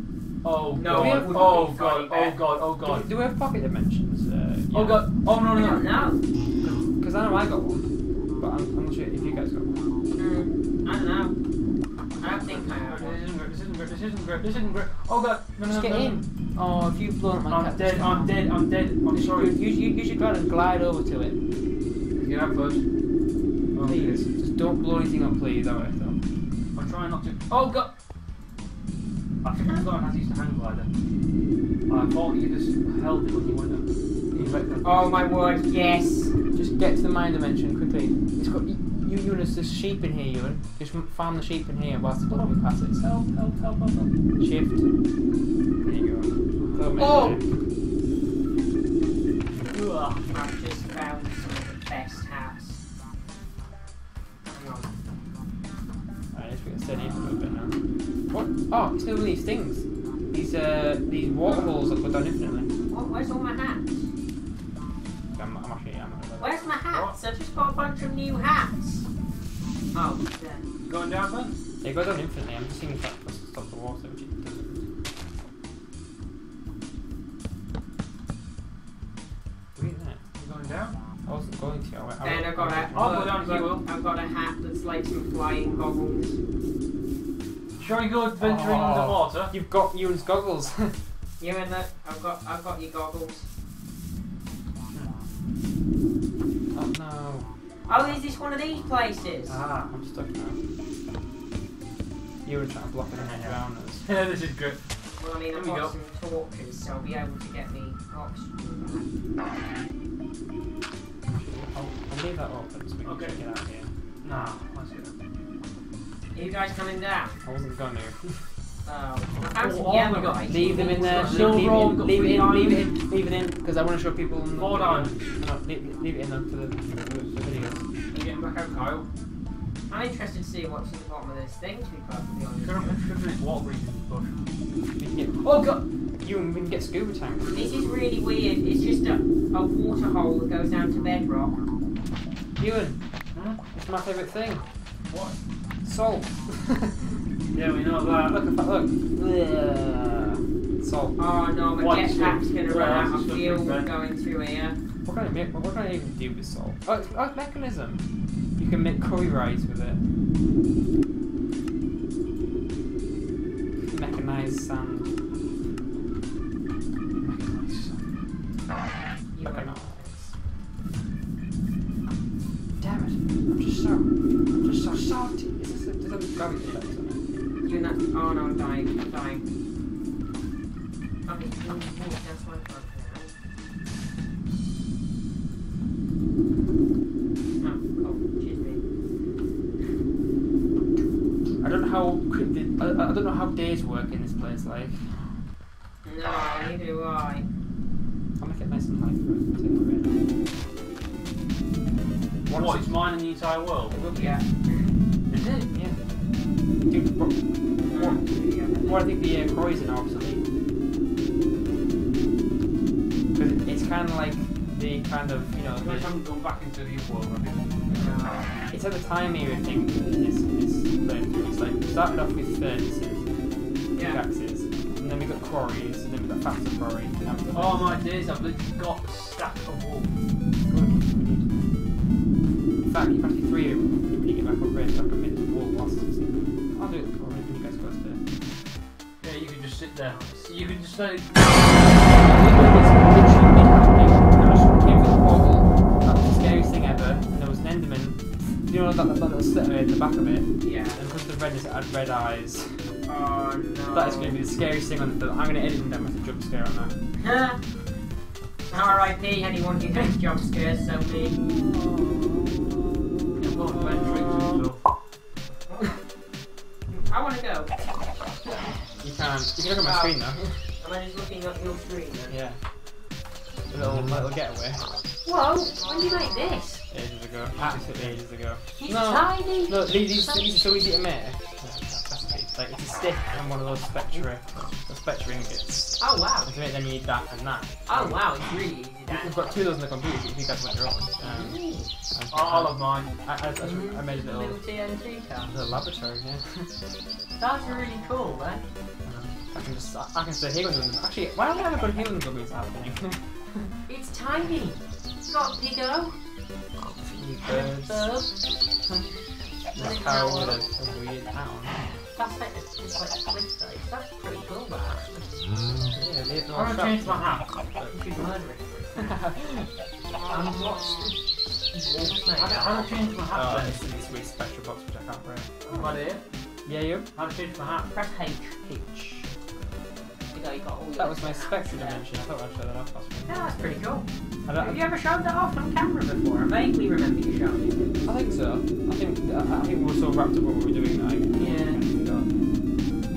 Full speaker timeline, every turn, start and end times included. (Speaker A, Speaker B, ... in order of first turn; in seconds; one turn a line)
Speaker A: 0.4-3.1
Speaker B: 0.8-2.4
Speaker C: 0.9-1.7
Speaker C: 2.7-5.0
Speaker A: 4.7-6.1
Speaker B: 5.5-6.2
Speaker C: 6.6-9.9
Speaker B: 10.2-11.3
Speaker B: 12.2-13.2
Speaker A: 12.3-16.3
Speaker C: 15.6-18.6
Speaker A: 17.4-19.6
Speaker C: 19.1-21.4
Speaker A: 22.1-22.8
Speaker A: 23.7-24.2
Speaker C: 23.8-26.2
Speaker A: 26.8-27.9
Speaker A: 29.4-30.9
Speaker A: 31.9-35.1
Speaker C: 34.3-35.0
Speaker B: 34.8-36.4
Speaker C: 36.5-43.1
Speaker A: 42.2-44.1
Speaker C: 44.4-45.0
Speaker C: 45.8-47.4
Speaker A: 46.6-47.0
Speaker B: 47.0-47.4
Speaker A: 49.7-50.2
Speaker B: 50.3-52.8
Speaker B: 54.5-54.9
Speaker C: 56.3-57.8
Speaker C: 58.3-62.7
Speaker B: 62.9-64.1
Speaker C: 65.3-66.8
Speaker B: 66.4-69.1
Speaker A: 66.9-67.2
Speaker B: 69.9-70.7
Speaker A: 70.8-71.6
Speaker C: 71.8-74.8
Speaker C: 79.8-80.2
Speaker A: 80.4-81.0
Speaker C: 81.2-83.3
Speaker B: 82.2-86.4
Speaker A: 82.9-83.9
Speaker A: 87.8-89.5
Speaker C: 88.4-91.0
Speaker B: 91.4-93.5
Speaker C: 96.7-98.2
Speaker B: 97.9-99.6
Speaker A: 99.5-99.9
Speaker C: 99.8-100.6
Speaker C: 102.4-104.1
Speaker A: 103.1-104.9
Speaker B: 105.2-109.1
Speaker A: 105.5-106.0
Speaker C: 111.3-114.5
Speaker A: 113.0-113.4
Speaker A: 114.2-115.1
Speaker B: 116.3-117.4
Speaker C: 117.4-118.5
Speaker B: 118.8-121.9
Speaker A: 119.3-122.9
Speaker C: 120.5-127.9
Speaker A: 124.5-125.2
Speaker A: 128.1-129.1
Speaker B: 129.9-133.0
Speaker A: 132.6-134.4
Speaker C: 135.0-137.8
Speaker A: 135.4-135.8
Speaker B: 137.5-141.6
Speaker C: 142.6-144.7
Speaker A: 143.3-143.6
Speaker A: 145.1-145.4
Speaker C: 145.8-147.2
Speaker A: 147.5-148.4
Speaker C: 148.2-151.2
Speaker B: 151.2-154.8
Speaker A: 151.8-153.9
Speaker C: 155.1-160.0
Speaker C: 163.9-165.2
Speaker C: 167.2-168.0
Speaker B: 169.3-169.8
Speaker C: 169.4-170.4
Speaker C: 172.8-177.5
Speaker B: 177.6-179.5
Speaker B: 181.2-183.3
Speaker B: 187.6-188.9
Speaker C: 191.6-195.4
Speaker B: 196.0-197.5
Speaker C: 198.4-200.3
Speaker C: 202.5-203.0
Speaker A: 202.5-204.0
Speaker C: 203.9-204.4
Speaker B: 204.1-205.0
Speaker A: 205.3-205.7
Speaker C: 205.7-206.0
Speaker C: 206.8-210.5
Speaker B: 207.9-209.1
Speaker C: 213.3-216.2
Speaker A: 215.8-218.3
Speaker C: 217.9-223.3
Speaker B: 217.9-218.5
Speaker C: 223.9-228.0
Speaker B: 223.9-224.2
Speaker A: 227.5-230.1
Speaker C: 230.7-231.5
Speaker C: 232.8-238.2
Speaker A: 239.2-242.4
Speaker B: 240.1-240.6
Speaker C: 242.1-252.9
Speaker B: 250.6-251.0
Speaker B: 253.1-254.4
Speaker C: 253.9-257.0
Speaker B: 257.2-257.6
Speaker B: 258.7-261.4
Speaker A: 263.4-264.8
Speaker B: 266.9-268.0
Speaker C: 268.9-270.7
Speaker B: 269.8-272.4
Speaker C: 272.3-273.2
Speaker C: 273.7-274.9
Speaker B: 275.2-276.9
Speaker C: 276.9-288.4
Speaker A: 277.6-278.2
Speaker B: 278.8-280.5
Speaker B: 286.0-286.5
Speaker B: 287.9-289.6
Speaker C: 289.1-294.6
Speaker B: 291.2-291.9
Speaker A: 292.3-293.1
Speaker B: 293.6-295.5
Speaker C: 295.4-296.8
Speaker B: 297.4-298.7
Speaker C: 299.0-303.7
Speaker B: 303.9-306.2
Speaker B: 307.0-308.4
Speaker C: 307.1-308.1
Speaker B: 309.7-310.6
Speaker C: 309.8-311.9
Speaker B: 312.0-316.1
Speaker C: 316.0-318.0
Speaker A: 316.5-317.5
Speaker B: 317.9-319.1
Speaker C: 319.0-319.7
Speaker B: 320.1-323.1
Speaker C: 320.3-320.6
Speaker A: 322.4-323.9
Speaker C: 323.3-325.7
Speaker B: 325.6-326.0
Speaker A: 325.8-326.2
Speaker C: 326.6-327.1
Speaker A: 327.1-327.9
Speaker B: 327.9-329.1
Speaker C: 328.7-329.3
Speaker B: 330.3-332.1
Speaker C: 331.0-333.8
Speaker B: 333.3-338.1
Speaker C: 334.5-334.8
Speaker C: 338.1-342.4
Speaker B: 341.4-341.8